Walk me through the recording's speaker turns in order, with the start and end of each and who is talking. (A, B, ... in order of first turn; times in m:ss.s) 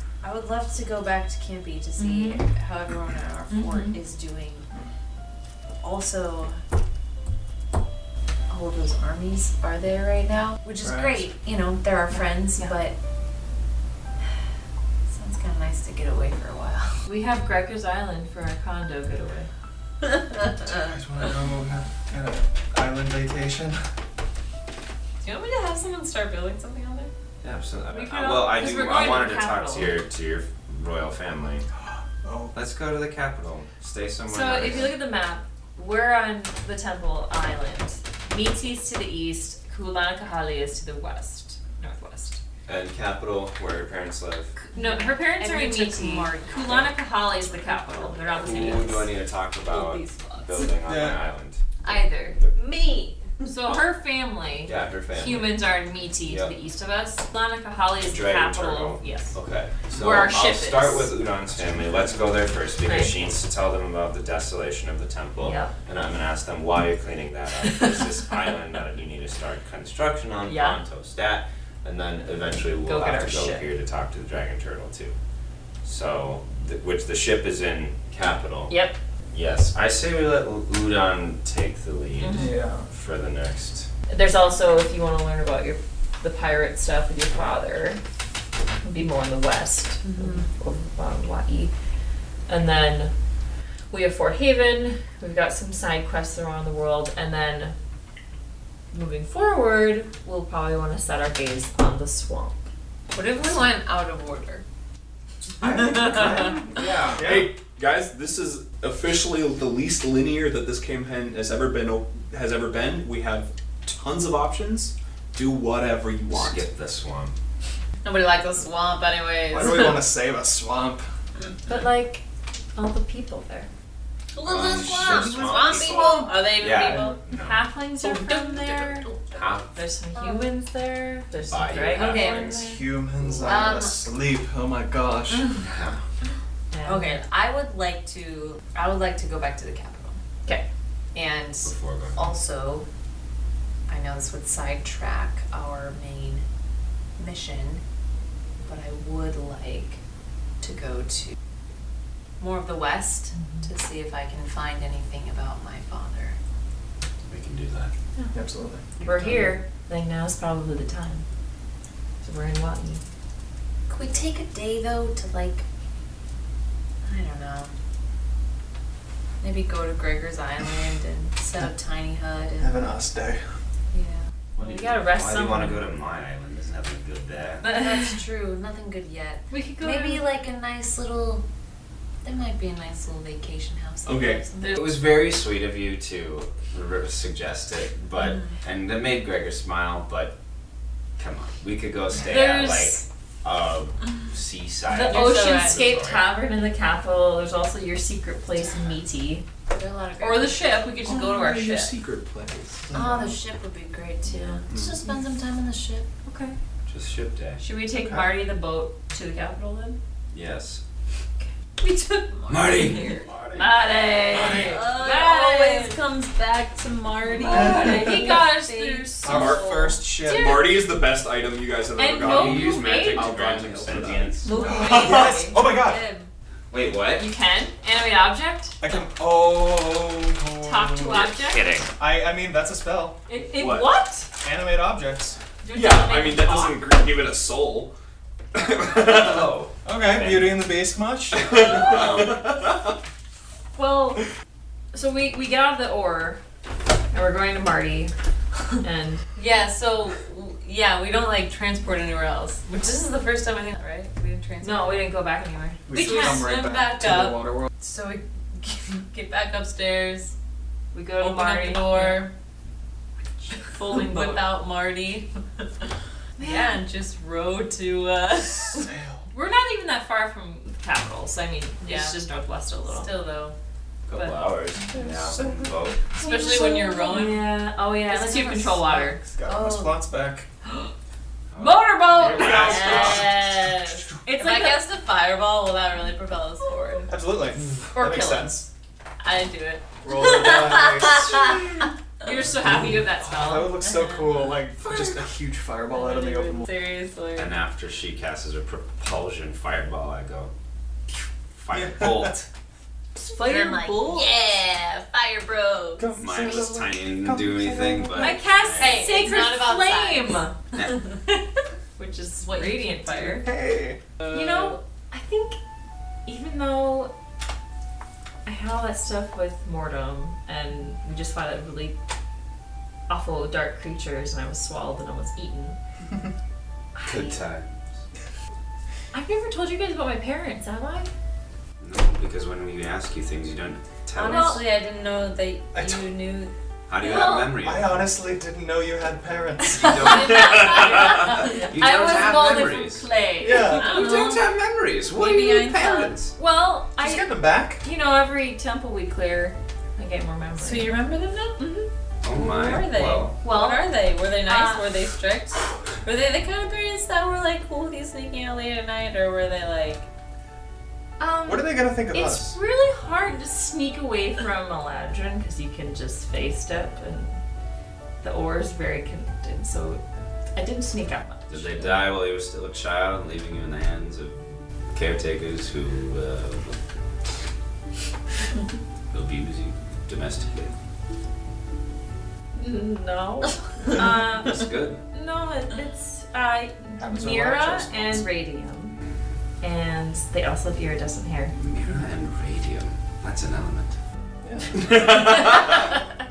0:00.2-0:04.6 A
0:02.0-0:02.4 B
0:03.5-0:04.0 B
0:05.8-0:06.6 A
0:08.5-0:12.9 A
0:10.8-0:11.3 C
0:12.1-0:12.8 B
0:15.1-0:17.0 A
0:17.0-0:19.5 B
0:20.7-0:23.8 C
0:25.2-0:27.1 A
0:27.4-0:31.6 D
0:27.9-0:29.9 B
0:32.2-0:32.5 C
0:32.5-0:35.0 D
0:34.3-0:42.4 B
0:42.6-0:44.5 D
0:44.7-0:49.1 A
0:44.7-0:49.1 B
0:48.3-0:51.6 D
0:49.7-0:50.6 A
0:50.8-0:51.2 C
0:51.8-0:53.2 A
0:53.4-0:59.4 B
0:54.6-0:55.6 D
0:56.2-0:56.5 D
0:58.0-1:15.1 D
0:59.9-1:01.1 B
1:01.6-1:02.2 C
1:02.8-1:03.2 B
1:05.4-1:05.7 B
1:10.4-1:10.8 B
1:12.8-1:13.6 B
1:15.8-1:18.7 D
1:18.7-1:19.0 B
1:19.3-1:23.9 D
1:22.2-1:22.6 B
1:22.3-1:22.9 C
1:24.1-1:28.0 B
1:28.8-1:31.7 B
1:30.0-1:30.5 A
1:32.5-1:33.1 B
1:33.9-1:37.7 B
1:38.9-1:42.6 B
1:43.1-1:44.6 A
1:45.6-1:46.6 C
1:45.9-1:47.3 D
1:47.1-1:47.5 C
1:47.2-1:56.6 E
1:56.3-1:57.3 D
1:58.0-2:00.1 A
1:59.5-2:01.0 C
2:01.7-2:02.2 B
2:02.7-2:03.7 B
2:04.3-2:07.2 A
2:04.4-2:07.7 D
2:05.0-2:05.9 C
2:07.3-2:09.1 B
2:08.0-2:10.5 A
2:09.3-2:09.7 D
2:09.7-2:12.8 B
2:11.4-2:12.6 D
2:11.9-2:12.6 A
2:12.4-2:15.6 C
2:13.4-2:14.1 A
2:15.6-2:16.0 D
2:16.7-2:17.2 B
2:16.8-2:20.2 A
2:21.1-2:22.9 A
2:21.6-2:22.3 D
2:23.9-2:26.4 A
2:27.2-2:27.8 A
2:28.6-2:30.0 A
2:30.6-2:31.3 A
2:32.4-2:36.4 A
2:33.3-2:33.7 B
2:37.3-2:37.9 D
2:38.3-2:38.9 C
2:39.0-2:41.2 B
2:39.1-2:39.4 D
2:42.2-2:43.0 B
2:43.9-2:45.6 A
2:47.0-2:47.7 A
2:49.4-2:52.9 A
2:52.6-2:53.4 C
2:53.9-2:54.3 A
2:54.6-2:57.6 D
2:54.6-2:55.9 B
2:57.6-2:58.1 B
2:57.6-3:01.4 A
2:59.5-3:00.2 B
3:02.2-3:04.8 A
3:04.0-3:04.4 E
3:04.6-3:04.8 B
3:04.6-3:10.4 D
3:11.2-3:16.3 D
3:12.2-3:13.0 B
3:14.9-3:19.4 B
3:15.0-3:15.9 A
3:19.7-3:20.8 A
3:20.2-3:21.9 B
3:21.0-3:22.8 E
3:22.9-3:23.4 C
3:22.9-3:26.1 A
3:24.2-3:24.6 B
3:26.2-3:26.6 B
3:26.9-3:27.6 D
3:27.6-3:30.0 B
3:28.0-3:28.3 C
3:30.3-3:30.8 D
3:31.8-3:33.3 A
3:32.5-3:33.6 D
3:33.6-3:36.0 B
3:34.3-3:34.9 C
3:34.3-3:40.0 A
3:37.3-3:39.7 B
3:37.5-3:38.2 C
3:39.2-3:40.7 C
3:39.2-3:39.7 E
3:40.2-3:40.6 B
3:40.2-3:44.4 E
3:42.0-3:43.3 B
3:42.2-3:44.5 D
3:44.4-3:45.6 B
3:44.5-3:46.3 A
3:44.6-3:46.1 C
3:46.7-3:47.3 D
3:47.2-3:49.1 B
3:48.8-3:51.3 C
3:50.6-3:51.7 B
3:51.1-3:51.9 D
3:52.0-3:53.2 C
3:53.3-3:54.3 B
3:53.6-3:53.9 E
3:54.4-3:55.4 C
3:55.6-3:56.9 B
3:55.7-3:57.9 E
3:58.5-3:59.5 E
3:58.8-4:00.6 D
3:59.8-4:02.3 C
4:01.5-4:02.7 E
4:01.8-4:02.3 D
4:03.8-4:04.2 B
4:04.9-4:06.4 B
4:07.1-4:08.1 B
4:08.8-4:09.2 B
4:09.3-4:15.0 A
4:14.6-4:16.5 B
4:15.9-4:17.7 C
4:15.9-4:20.3 A
4:20.9-4:22.3 B
4:21.2-4:22.3 A
4:23.5-4:25.9 A
4:23.5-4:24.5 B
4:26.4-4:26.8 B
4:26.4-4:28.8 A
4:28.7-4:29.2 C
4:29.3-4:33.1 B
4:31.8-4:32.2 A
4:32.9-4:33.5 A
4:34.1-4:36.0 D
4:34.9-4:35.7 C
4:36.1-4:40.0 A
4:36.2-4:39.2 B
4:39.0-4:40.5 C
4:40.6-4:40.9 B
4:41.5-4:43.2 D
4:41.6-4:44.8 B
4:42.2-4:44.3 C
4:42.5-4:43.2 A
4:44.3-4:47.1 A
4:47.1-4:48.7 C
4:47.9-4:48.7 B
4:49.2-4:49.8 B
4:49.2-4:51.7 A
4:50.0-4:51.9 C
4:52.2-4:53.8 B
4:53.2-4:56.7 C
4:53.8-4:55.3 A
4:55.9-4:57.5 A
4:57.4-5:00.5 D
5:01.6-5:02.4 D
5:01.7-5:02.4 C
5:03.2-5:04.4 B
5:03.3-5:06.1 A
5:06.0-5:08.4 C
5:06.2-5:09.1 D
5:08.1-5:11.0 B
5:08.8-5:10.4 A
5:10.7-5:11.0 D
5:12.0-5:13.5 B
5:12.4-5:13.4 A
5:13.4-5:14.0 C
5:14.3-5:15.6 B
5:16.2-5:17.1 B
5:18.4-5:22.0 B
5:23.1-5:25.8 B
5:26.9-5:27.4 B
5:27.0-5:27.7 D
5:29.1-5:31.1 B
5:31.8-5:34.6 D
5:34.2-5:37.5 A
5:34.2-5:34.6 B
5:35.7-5:36.0 C
5:36.9-5:38.0 D
5:37.0-5:37.4 B
5:37.4-5:40.4 C
5:39.7-5:43.1 D
5:40.0-5:44.4 B
5:40.0-5:41.6 A
5:43.4-5:44.0 C
5:43.5-5:44.5 A
5:43.7-5:46.3 D
5:45.2-5:46.1 A
5:45.2-5:51.0 B
5:46.9-5:47.8 C
5:50.6-5:51.6 A
5:51.6-5:51.9 B
5:52.2-5:53.3 D
5:52.3-6:00.0 A
5:53.4-5:54.9 B
6:01.2-6:07.4 B
6:01.4-6:02.6 C
6:08.2-6:10.0 B
6:10.5-6:12.0 B
6:11.5-6:14.4 D
6:14.9-6:16.8 D
6:19.1-6:20.7 D
6:22.6-6:29.0 B
6:23.9-6:25.0 D
6:27.0-6:28.2 C
6:29.6-6:31.6 B
6:31.5-6:33.9 D
6:34.4-6:35.2 C
6:35.2-6:35.8 A